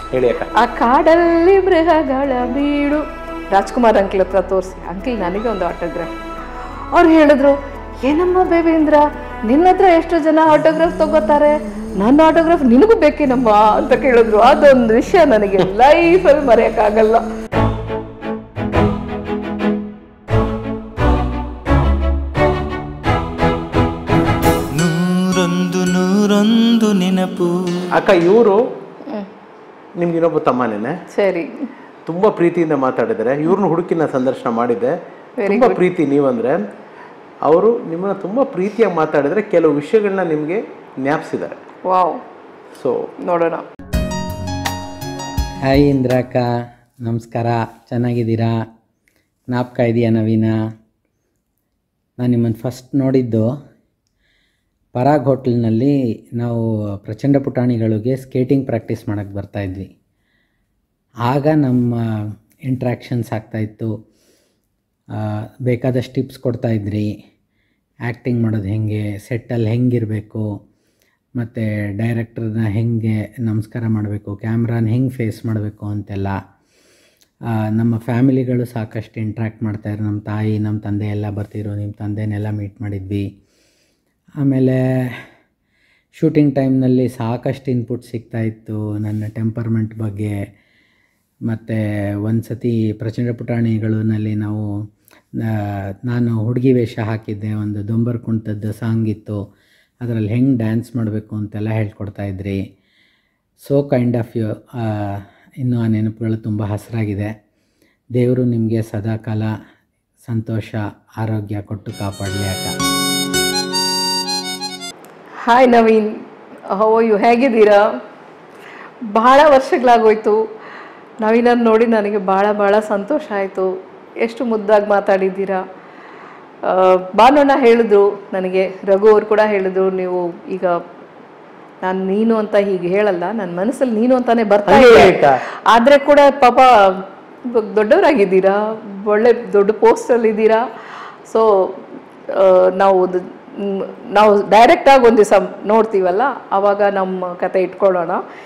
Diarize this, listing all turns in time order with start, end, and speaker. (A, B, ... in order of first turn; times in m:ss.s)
0:00.1-0:00.5 A
0:00.6-0:06.1 B
0:06.9-0:17.2 B
0:24.7-0:27.8 C
0:27.9-0:28.6 A
0:30.0-0:30.9 A
0:31.1-0:31.6 B
0:32.0-0:36.6 A
0:35.4-0:35.8 B
0:37.4-0:41.6 A
0:41.8-0:42.2 B
0:42.7-0:43.1 A
0:43.2-0:43.6 B
0:45.6-0:46.4 D
0:47.0-0:48.5 D
0:49.5-0:50.5 D
0:52.2-0:53.5 D
0:54.9-0:59.9 D
1:01.2-1:01.9 D
1:02.7-1:03.9 D
1:05.2-1:07.1 D
1:08.0-1:10.4 D
1:11.4-1:16.4 D
1:17.7-1:23.2 D
1:24.4-1:25.1 D
1:26.2-1:30.3 D
1:31.5-1:34.6 D
1:36.1-1:39.4 D
1:40.0-1:42.6 D
1:43.6-1:47.3 D
1:48.2-1:49.5 D
1:50.2-1:52.7 D
1:55.4-1:56.1 B
1:56.7-1:57.8 B
1:59.1-2:00.4 B
2:01.2-2:03.7 B
2:04.2-2:05.6 B
2:06.6-2:10.7 B
2:11.8-2:15.2 B
2:14.6-2:15.4 A
2:15.7-2:20.6 B
2:21.3-2:21.7 B
2:22.3-2:28.2 B